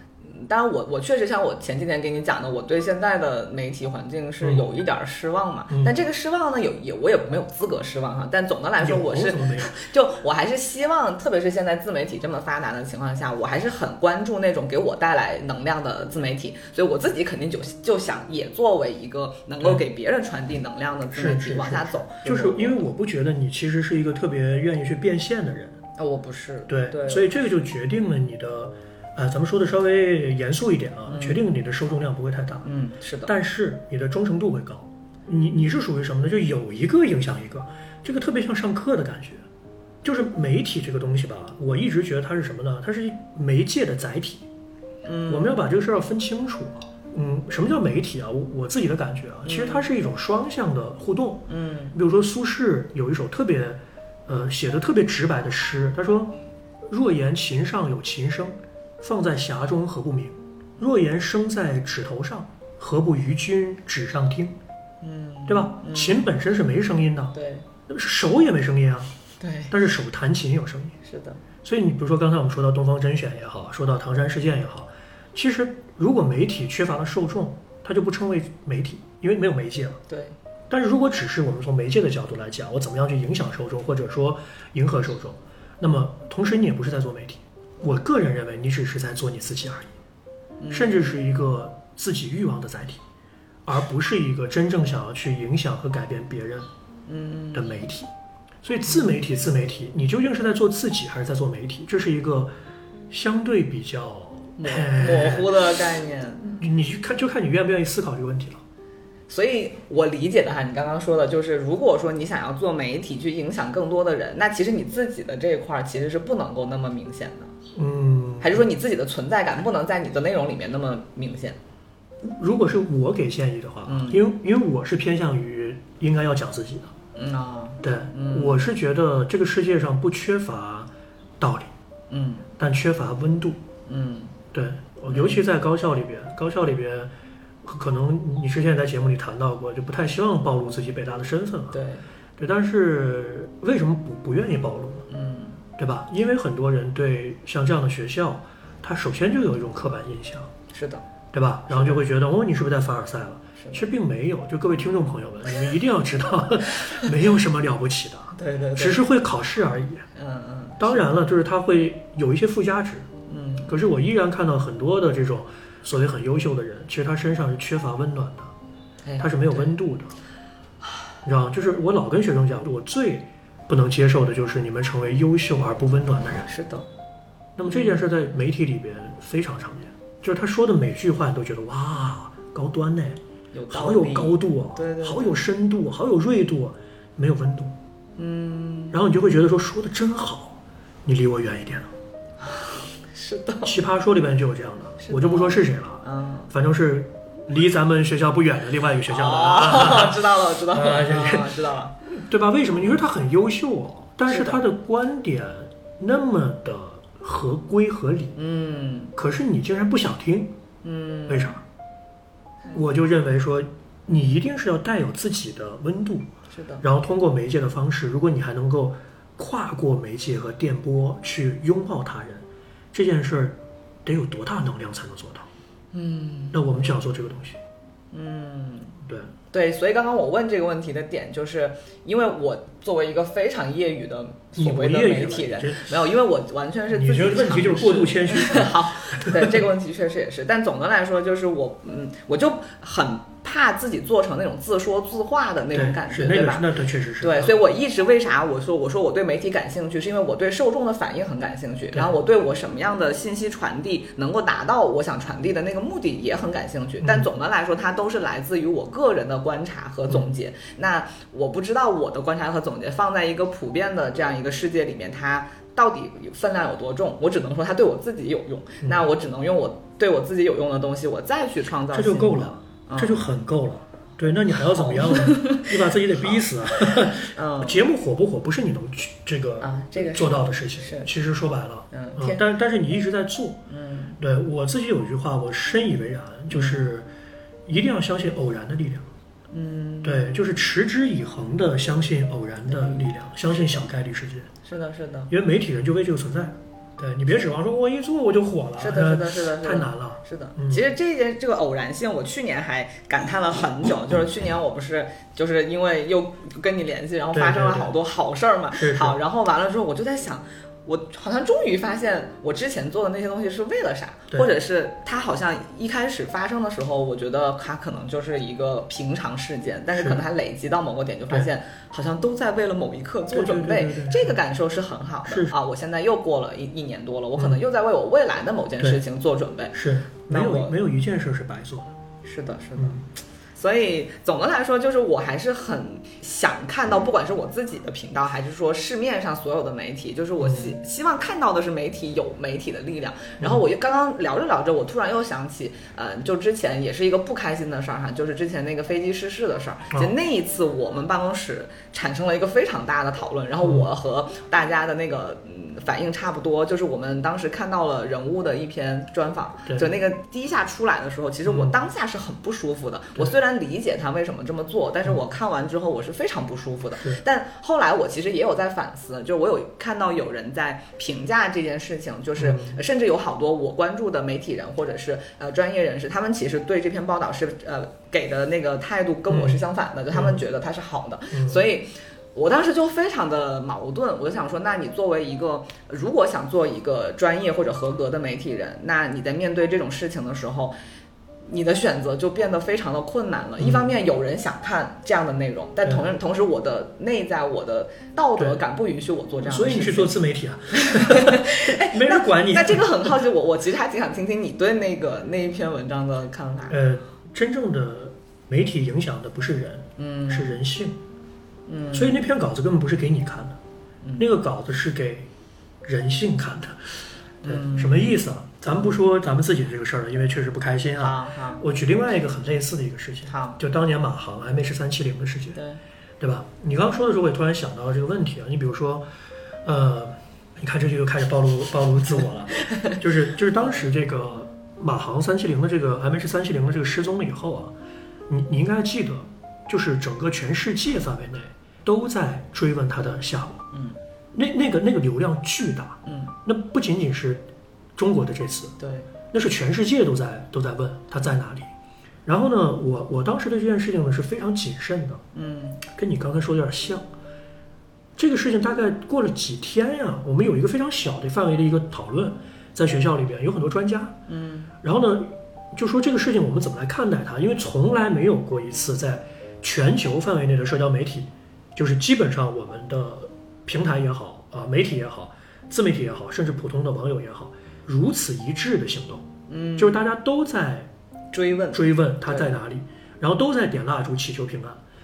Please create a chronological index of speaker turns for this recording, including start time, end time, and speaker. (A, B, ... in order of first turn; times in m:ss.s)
0:00.2-0:22.8 A
0:05.7-0:06.0 B
0:08.8-0:09.8 B
0:21.1-0:25.8 B
0:26.0-0:27.3 A
0:26.7-0:32.7 B
0:31.1-0:31.4 A
0:32.6-0:33.3 A
0:33.2-0:39.4 B
0:40.0-0:44.4 B
0:45.0-0:45.6 A
0:45.3-1:04.6 B
0:49.4-0:49.9 A
0:51.5-0:52.0 A
1:05.0-1:06.3 A
1:05.5-1:07.3 B
1:07.3-1:07.6 A
1:07.9-1:09.1 B
1:09.4-1:09.7 A
1:09.7-1:11.0 B
1:11.0-1:11.4 A
1:11.6-1:20.0 B
1:20.1-1:20.3 A
1:20.7-1:29.9 B
1:30.6-1:31.2 A
1:30.7-1:33.0 B
1:33.6-1:36.7 B
1:37.1-1:37.7 A
1:37.5-1:38.1 B
1:38.6-1:42.5 B
1:43.1-1:45.6 B
1:44.6-1:46.6 A
1:46.6-1:48.6 B
1:49.3-1:57.5 A
1:57.7-1:58.6 B
1:58.4-2:01.6 A
2:02.2-2:06.9 B
2:03.8-2:04.2 A
2:07.2-2:08.7 A
2:07.8-2:11.7 B
2:12.1-2:12.4 A
2:12.6-2:13.6 B
2:13.9-2:14.3 A
2:14.5-2:17.1 B
2:15.1-2:15.4 A
2:17.6-2:21.8 B
2:21.7-2:22.0 A
2:22.4-2:25.1 B
2:25.1-2:25.6 A
2:25.8-2:30.5 B
2:30.7-2:31.0 A
2:31.3-2:40.1 B
2:31.7-2:32.0 A
2:38.3-2:39.0 A
2:40.2-2:41.1 A
2:40.8-2:43.1 B
2:43.3-2:43.7 A
2:43.7-2:48.5 B
2:49.0-2:49.7 A
2:49.2-2:50.1 B
2:51.2-2:56.5 B
2:56.5-2:56.8 A
2:57.6-3:03.2 B
2:57.7-2:58.0 A
3:03.5-3:05.4 A
3:03.7-3:07.7 B
3:08.2-3:09.0 A
3:08.9-3:11.9 B
3:12.4-3:13.7 A
3:13.6-3:20.2 B
3:15.0-3:16.5 A
3:19.1-3:21.9 A
3:20.7-3:28.4 B
3:24.3-3:24.6 A
3:28.4-3:29.1 A
3:29.2-3:30.5 B
3:30.8-3:31.6 A
3:31.3-3:31.6 B
3:32.7-3:36.3 B
3:36.5-3:36.8 A
3:36.8-3:45.5 B
3:45.9-3:46.6 A
3:46.5-3:47.6 B
3:48.1-3:49.0 A
3:49.0-3:49.3 B
3:49.5-4:06.7 A
3:54.6-3:55.9 B
3:56.9-3:59.6 B
4:05.7-4:07.6 B
4:07.2-4:33.3 A
4:17.0-4:17.3 B
4:31.9-4:43.6 B
4:34.7-4:35.7 A
4:37.2-4:37.8 A
4:39.6-4:41.1 A
4:41.9-4:42.4 A
4:43.7-4:44.2 A
4:44.2-4:47.1 B
4:46.5-4:46.8 A
4:47.6-4:49.1 B
4:49.5-4:50.3 A
4:50.0-4:54.5 B
4:52.7-4:53.1 A
4:54.6-4:55.3 A
4:55.3-5:00.8 B
4:58.8-5:29.8 A
5:07.3-5:07.9 B
5:08.7-5:09.2 B
5:19.9-5:20.2 B
5:23.3-5:24.4 B
5:25.2-5:25.5 B
5:27.4-5:27.6 B
5:29.7-5:31.9 B
5:30.3-5:30.7 A
5:32.2-5:33.0 A
5:32.8-5:33.0 B
5:33.6-6:30.8 A
5:40.4-5:40.7 B
5:53.6-5:53.9 B
6:01.4-6:01.8 B
6:12.4-6:12.8 B
6:19.3-6:20.4 B
6:21.3-6:21.6 B
6:31.4-6:40.1 A
6:33.6-6:33.9 B
6:35.8-6:36.1 B
6:38.4-6:38.6 B
6:39.4-6:43.2 B
6:40.7-6:46.8 A
6:46.7-6:51.0 B
6:50.0-6:50.6 A
6:51.7-6:52.2 A
6:51.9-6:53.6 B
6:54.0-6:54.3 A
6:54.2-6:55.3 B
6:55.8-6:56.9 B
6:57.4-6:58.2 A
6:57.4-7:05.6 B
7:01.0-7:01.6 A
7:03.3-7:03.6 A
7:05.5-7:05.8 A
7:06.2-7:09.0 B
7:09.6-7:17.7 B
7:12.6-7:12.9 A
7:13.6-7:13.9 A
7:18.3-7:23.6 B
7:23.7-7:24.0 A
7:24.3-7:27.4 B
7:26.0-7:26.3 A
7:28.0-7:28.8 B
7:28.8-7:29.1 A
7:29.3-7:31.7 B
7:32.2-7:35.2 B
7:35.3-7:35.8 A
7:35.9-7:37.1 B
7:38.2-7:44.2 B
7:44.3-7:44.7 A
7:44.8-8:00.9 B
7:59.5-8:00.0 A
8:01.3-8:02.5 A
8:01.7-8:04.8 B